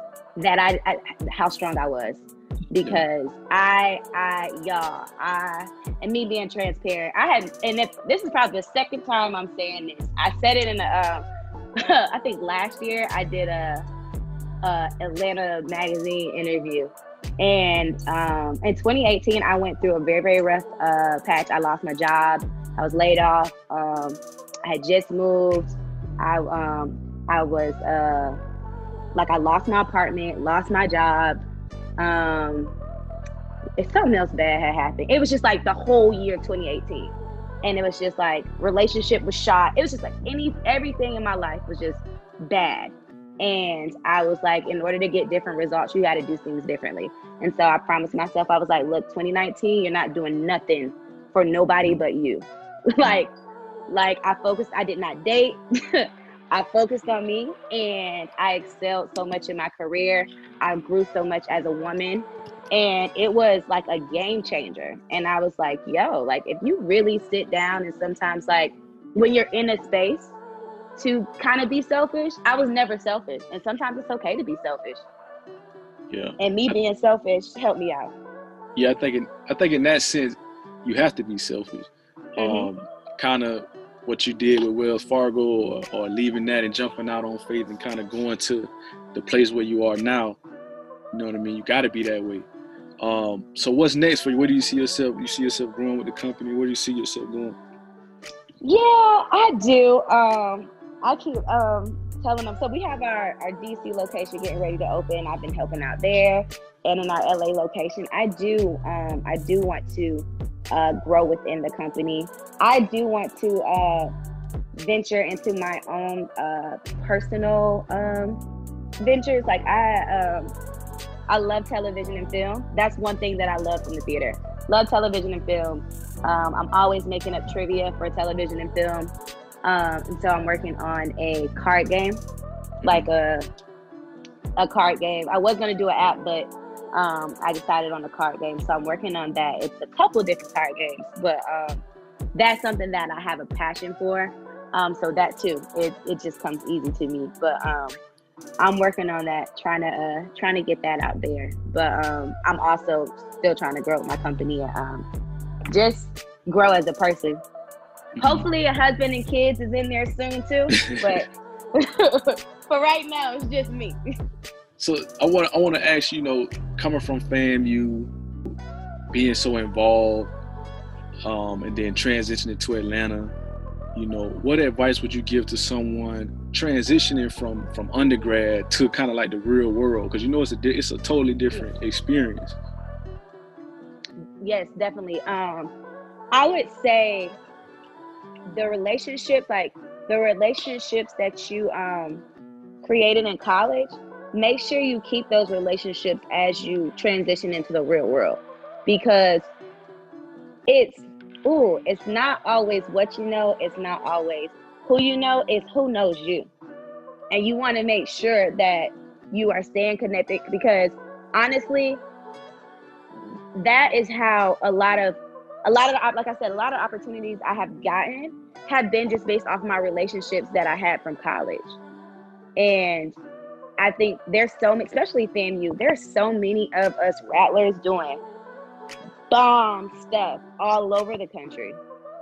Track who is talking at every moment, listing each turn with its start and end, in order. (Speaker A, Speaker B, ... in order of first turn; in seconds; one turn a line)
Speaker A: 0.4-11.2
Speaker A: 11.8-13.8
Speaker A: 14.6-28.4
Speaker A: 29.1-31.4
Speaker A: 32.0-32.7
Speaker A: 33.8-53.3
Speaker A: 53.9-70.3
Speaker A: 71.0-75.0
Speaker B: 76.1-76.7
Speaker A: 76.4-78.1
Speaker B: 78.7-90.4
Speaker A: 82.4-82.7
Speaker B: 91.1-92.5
Speaker B: 93.0-97.6
Speaker A: 98.6-114.1
Speaker A: 114.8-118.4
Speaker A: 119.0-120.5
Speaker A: 121.3-129.1
Speaker A: 129.6-132.2
Speaker B: 132.8-133.1
Speaker A: 132.8-133.5
Speaker A: 134.6-141.8
Speaker A: 142.3-148.0
Speaker A: 148.6-155.1
Speaker A: 155.7-157.4
Speaker B: 158.2-158.4
Speaker A: 158.2-164.0
Speaker B: 160.8-161.2
Speaker B: 164.8-168.1
Speaker B: 169.1-170.3
Speaker B: 171.2-173.3
Speaker B: 173.9-182.6
Speaker A: 184.4-185.7
Speaker A: 186.3-187.4
Speaker A: 188.5-192.2
Speaker A: 192.8-199.5
Speaker A: 200.7-206.5
Speaker A: 207.3-212.0
Speaker A: 213.5-221.8
Speaker A: 222.6-223.2
Speaker A: 223.8-228.2
Speaker A: 229.3-231.8